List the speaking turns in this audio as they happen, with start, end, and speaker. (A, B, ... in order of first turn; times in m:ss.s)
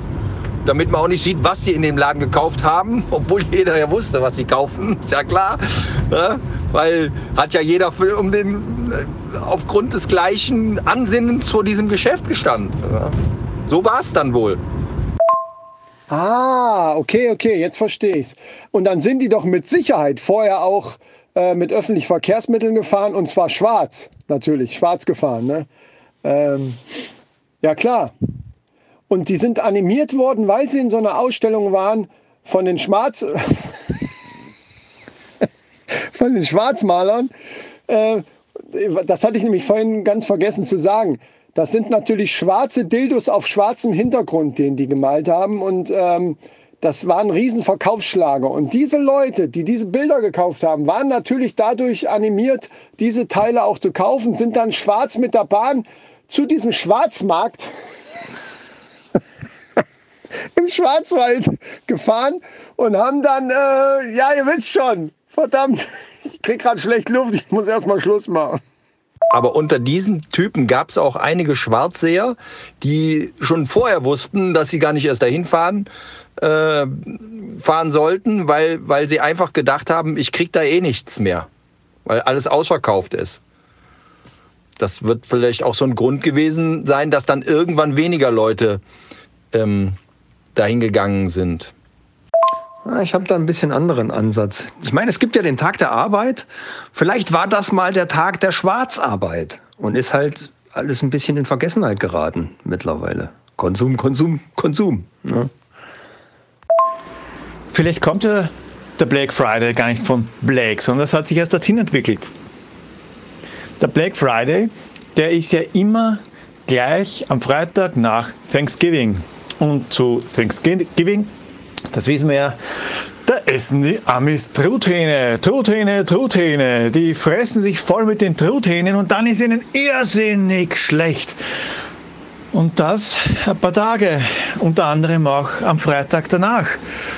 0:00.6-0:13.1 A
0:13.7-0:14.6 A
0:16.1-0:25.7 B
0:26.2-0:26.8 B
0:27.6-0:28.1 B
0:29.1-0:33.8 B
0:36.0-0:37.3 B
0:37.9-0:57.7 B
1:00.5-1:08.6 B
1:09.3-1:15.9 A
1:13.8-1:14.6 C
1:16.4-1:16.9 C
1:17.0-1:21.5 A
1:22.0-1:23.4 A
1:24.8-1:28.8 A
1:29.5-1:30.0 A
1:30.6-1:31.7 A
1:32.8-1:45.5 C
1:47.7-1:52.3 D
1:53.8-2:01.3 D
2:01.9-2:02.6 D
2:03.2-2:11.4 D
2:12.5-2:16.8 D